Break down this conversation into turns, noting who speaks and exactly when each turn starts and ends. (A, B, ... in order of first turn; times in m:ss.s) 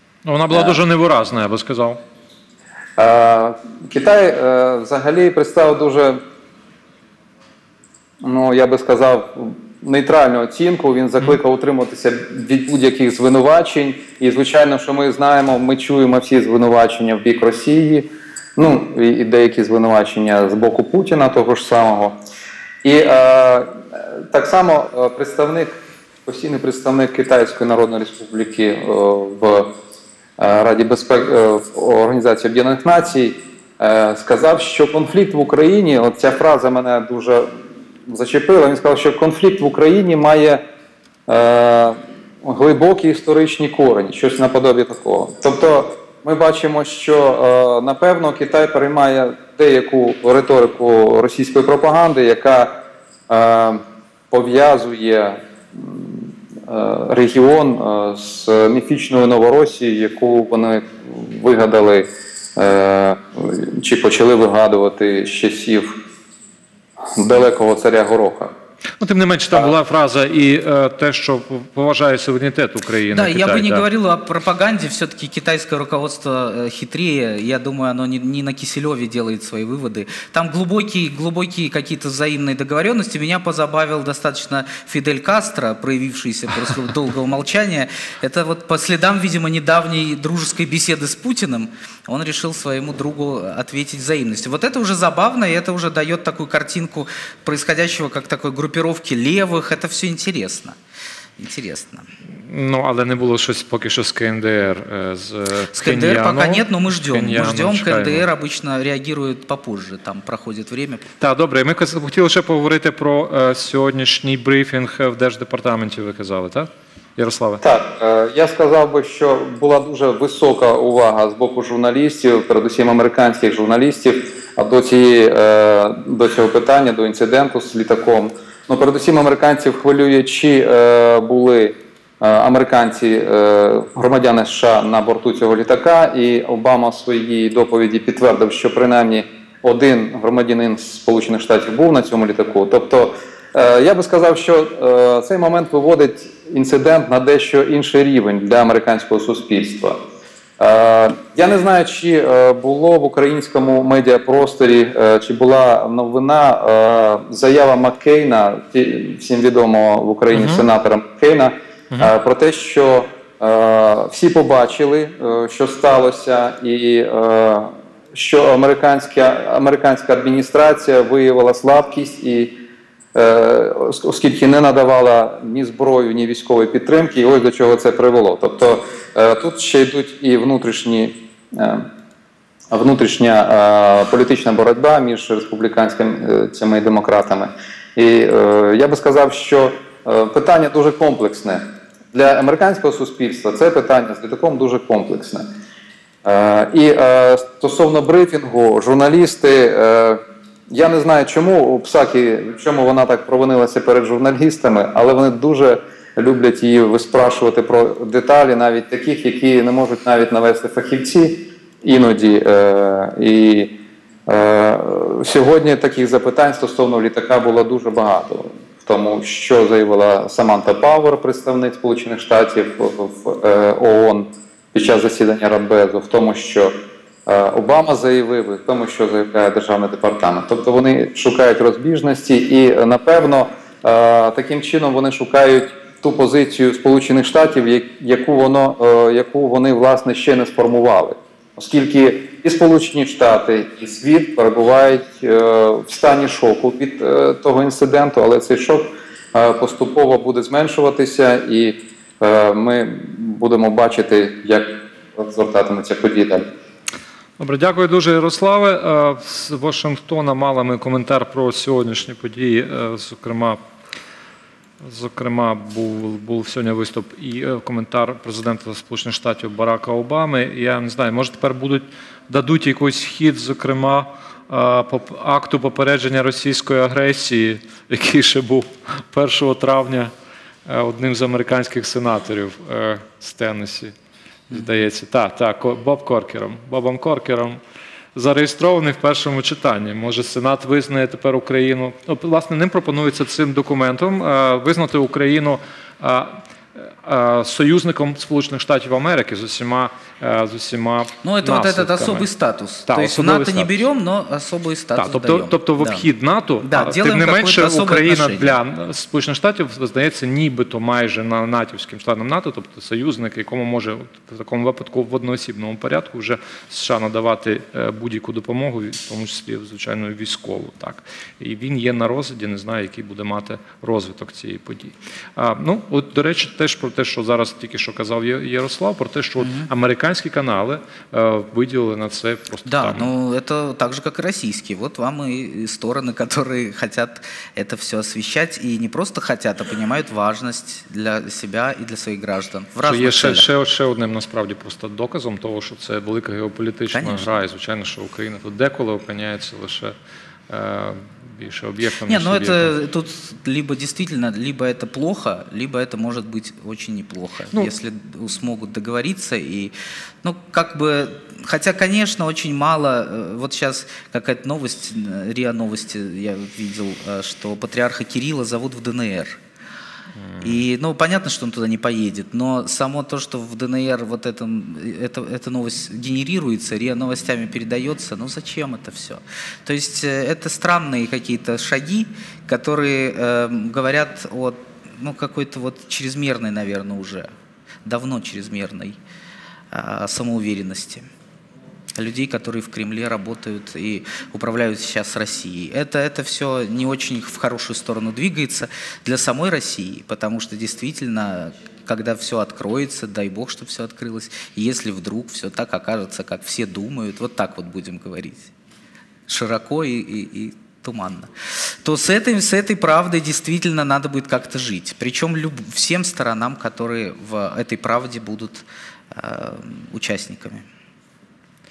0:00.2-0:02.0 A
0:00.5-0:00.8 B
0:03.0-0:06.2 B
0:08.2-0:22.2 B
0:22.8-0:29.8 B
0:30.4-0:37.5 B
0:38.1-0:40.6 B
0:41.3-0:52.8 B
0:53.3-1:06.0 B
1:07.1-1:08.5 B
1:09.0-1:13.8 A
1:13.1-1:40.8 C
1:41.4-1:42.1 C
1:42.3-1:48.3 A
1:45.7-1:51.1 C
1:51.2-1:57.6 A
1:57.6-2:30.0 B
2:30.6-2:52.6 B
2:40.3-2:40.6 A
2:53.2-3:01.9 B
3:02.7-3:15.5 B
3:16.2-3:33.7 B
3:34.3-3:46.8 B
3:47.3-4:16.5 B
4:17.4-4:23.6 A
4:24.8-4:40.1 A
4:40.7-4:43.9 A
4:44.5-4:47.6 A
4:48.1-5:02.3 A
5:01.2-5:06.1 C
5:02.9-5:03.8 A
5:05.0-5:33.1 A
5:06.6-5:08.6 C
5:29.4-5:29.7 C
5:32.7-5:43.5 C
5:42.8-5:50.0 A
5:46.9-5:47.3 C
5:50.5-5:52.7 A
5:52.1-6:09.4 C
6:10.2-6:10.5 A
6:10.4-6:27.3 C
6:27.8-6:29.0 C
6:29.7-6:31.1 C
6:32.0-6:48.5 C
6:49.3-6:51.3 C
6:51.8-7:00.7 C